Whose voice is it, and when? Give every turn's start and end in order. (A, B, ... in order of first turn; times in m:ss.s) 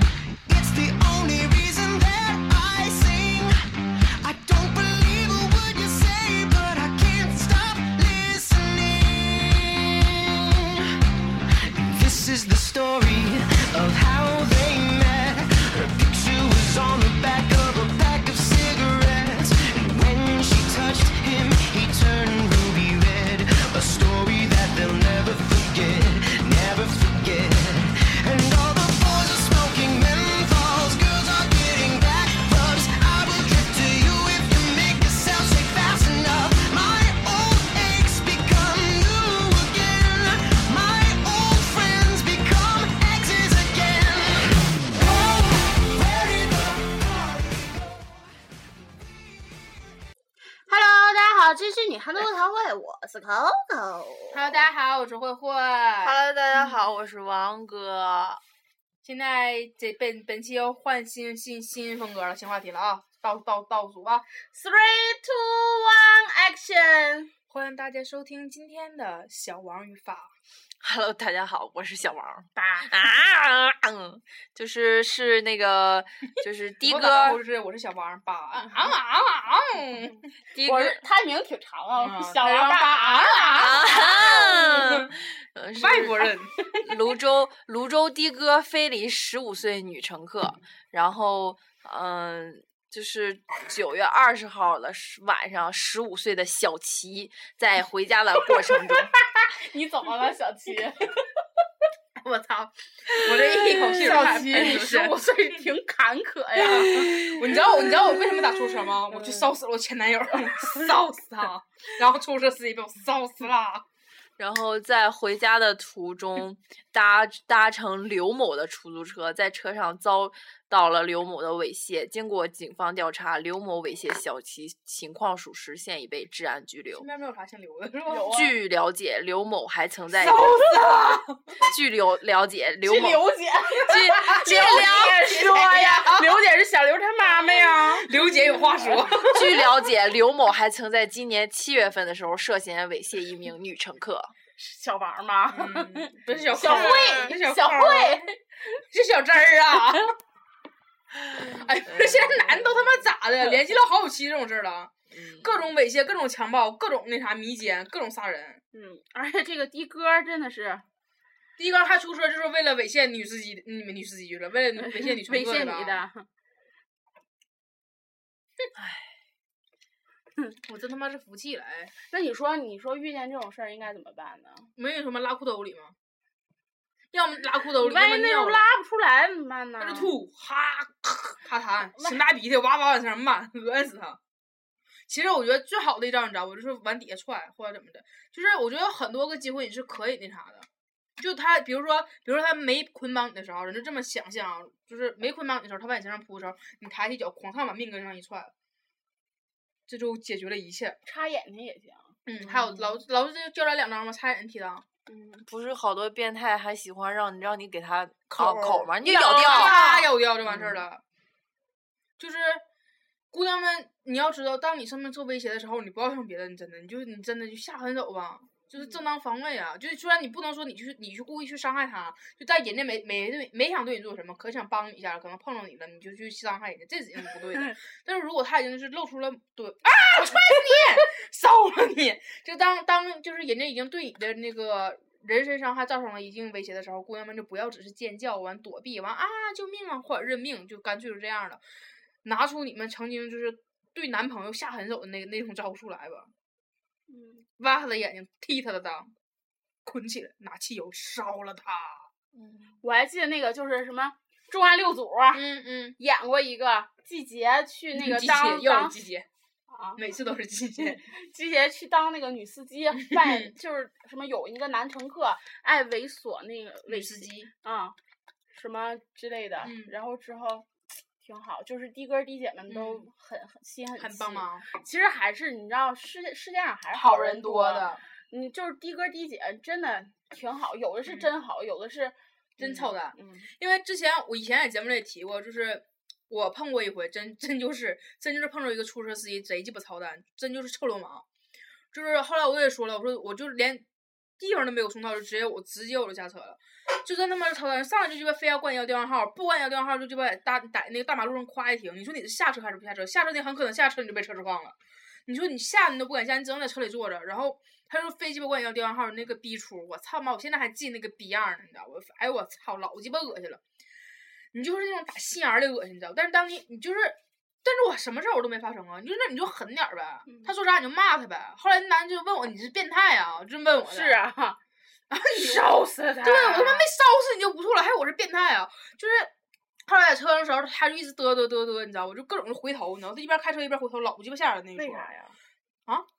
0:00.4-0:03.6 A
0:04.2-0:11.0 A
0:11.7-0:48.1 A
0:50.7-0:54.6 B
0:54.3-0:56.2 C
0:56.0-0:58.4 D
0:59.0-1:04.2 C
1:04.5-1:07.3 B
1:07.5-1:10.3 C
1:10.8-1:17.4 D
1:12.6-1:12.9 B
1:16.8-1:20.2 C
1:20.5-1:21.0 D
1:20.6-1:24.7 B
1:22.0-1:25.1 C
1:23.6-1:39.1 D
1:25.8-1:26.7 C
1:38.9-1:41.2 B
1:42.2-1:45.2 C
1:43.6-1:47.1 B
1:46.6-1:47.6 D
1:46.6-1:53.8 C
1:49.1-1:49.5 B
1:54.4-2:07.0 D
2:07.0-2:08.3 C
2:08.1-2:08.6 B
2:08.3-2:10.5 D
2:10.1-2:11.4 C
2:11.6-2:15.2 D
2:12.8-2:19.1 B
2:14.0-2:16.4 C
2:17.3-2:19.6 C
2:19.2-2:24.3 D
2:24.6-2:28.4 B
2:25.5-2:28.3 C
2:26.6-2:27.2 D
2:28.9-2:30.1 C
2:31.3-2:33.1 D
2:31.3-2:38.6 C
2:35.1-2:35.7 D
2:38.7-2:40.8 B
2:41.6-2:46.0 C
2:44.8-2:46.3 B
2:48.8-2:49.0 D
2:50.6-2:51.9 C
2:52.1-2:54.7 B
2:54.8-2:55.9 C
2:57.1-2:58.7 C
2:57.8-3:00.1 B
2:59.8-3:04.2 C
3:05.1-3:10.7 C
3:11.2-3:18.5 C
3:19.9-3:21.0 C
3:21.0-3:22.1 B
3:22.2-3:24.8 C
3:22.4-3:22.9 D
3:25.1-3:29.8 D
3:28.3-3:31.0 C
3:29.0-3:30.1 B
3:30.4-3:30.8 D
3:32.2-3:32.6 C
3:33.3-4:01.6 C
4:02.2-4:06.3 C
4:07.1-4:07.5 B
4:07.6-4:09.1 C
4:09.8-4:12.1 C
4:12.4-4:12.7 D
4:12.8-4:15.4 B
4:15.3-4:16.0 C
4:16.0-4:19.0 B
4:17.9-4:19.3 C
4:19.7-4:20.0 B
4:20.0-4:21.0 C
4:20.8-4:28.0 B
4:22.9-4:23.5 C
4:26.9-4:27.5 C
4:28.5-4:43.5 B
4:29.6-4:29.9 C
4:32.7-4:33.1 C
4:34.0-4:34.7 C
4:36.9-4:38.0 C
4:42.6-4:51.2 C
4:51.9-4:53.8 C
4:54.4-5:04.8 C
5:05.3-5:13.6 C
5:14.5-5:24.2 C
5:23.9-5:24.6 B
5:25.1-5:25.6 C
5:25.2-5:26.9 B
5:26.2-5:29.3 C
5:29.8-5:35.1 C
5:34.7-5:35.4 B